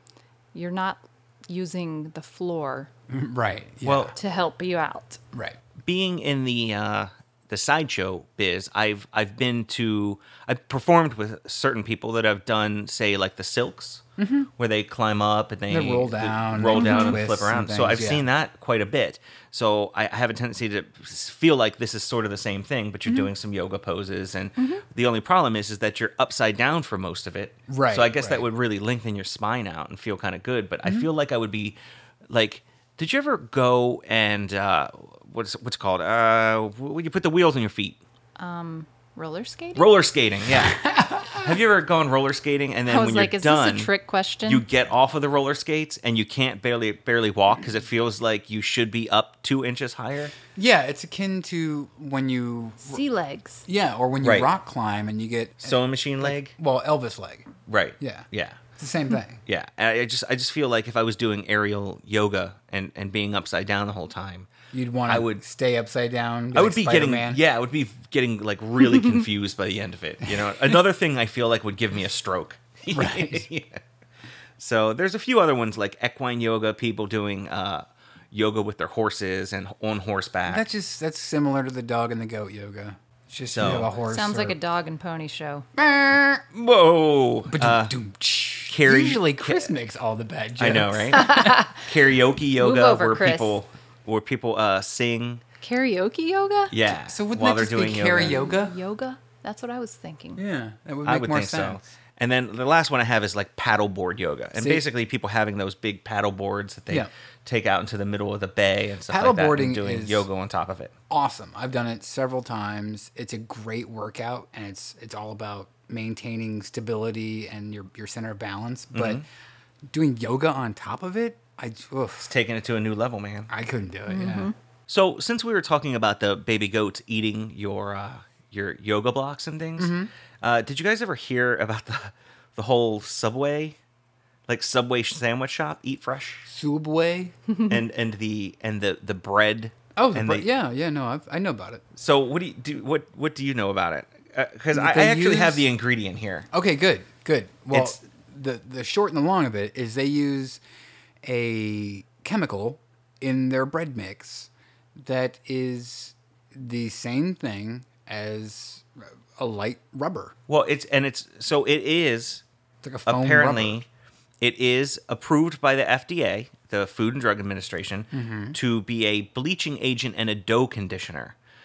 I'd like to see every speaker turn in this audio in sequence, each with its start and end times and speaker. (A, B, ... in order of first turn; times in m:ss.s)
0:00.5-0:02.9 A
0:03.1-0:04.1 B
0:03.8-0:04.1 C
0:04.2-0:05.2 A
0:05.3-0:05.6 B
0:05.8-0:14.0 C
0:14.2-0:14.5 B
0:14.6-0:31.8 C
0:15.7-0:18.2 B
0:16.7-0:17.2 A
0:24.6-0:24.8 A
0:27.7-0:28.4 B
0:32.3-0:38.0 C
0:38.4-0:39.9 A
0:39.7-0:43.9 C
0:40.6-0:41.5 B
0:42.9-0:44.6 A
0:44.5-0:50.3 C
0:50.5-0:53.0 B
0:52.8-0:53.6 A
0:53.7-0:57.5 B
0:54.2-0:54.5 C
0:55.6-0:56.5 C
0:57.7-0:58.6 C
0:58.0-0:58.3 B
0:58.8-0:59.4 B
0:59.4-1:04.5 C
1:04.7-1:07.4 B
1:05.1-1:05.4 C
1:06.5-1:13.8 C
1:12.9-1:13.5 B
1:14.6-1:20.6 C
1:20.5-1:24.6 B
1:23.5-1:23.9 C
1:24.0-1:25.6 A
1:25.8-1:26.4 B
1:26.5-1:27.9 C
1:27.5-1:31.4 B
1:28.7-1:29.7 C
1:30.6-1:35.4 C
1:31.1-1:31.8 A
1:32.6-1:33.6 A
1:35.6-1:36.7 A
1:36.7-1:38.4 C
1:37.0-1:38.8 B
1:38.2-1:40.4 A
1:40.4-1:41.8 B
1:41.0-1:50.9 C
1:44.6-1:44.8 B
1:49.1-1:50.3 B
1:51.1-1:59.2 B
1:58.9-1:59.2 C
1:59.9-2:02.3 B
2:02.2-2:03.5 C
2:03.5-2:04.5 B
2:04.1-2:04.5 A
2:04.9-2:13.8 C
2:09.8-2:10.1 B
2:14.5-2:16.5 C
2:16.5-2:17.4 B
2:17.7-2:20.4 C
2:20.0-2:21.8 B
2:22.0-2:26.5 C
2:24.7-2:25.7 B
2:26.5-2:30.6 B
2:27.7-2:28.0 C
2:31.2-2:40.3 B
2:40.5-2:42.4 C
2:42.8-2:43.8 B
2:43.0-2:43.9 C
2:44.4-2:51.3 C
2:48.1-2:48.6 B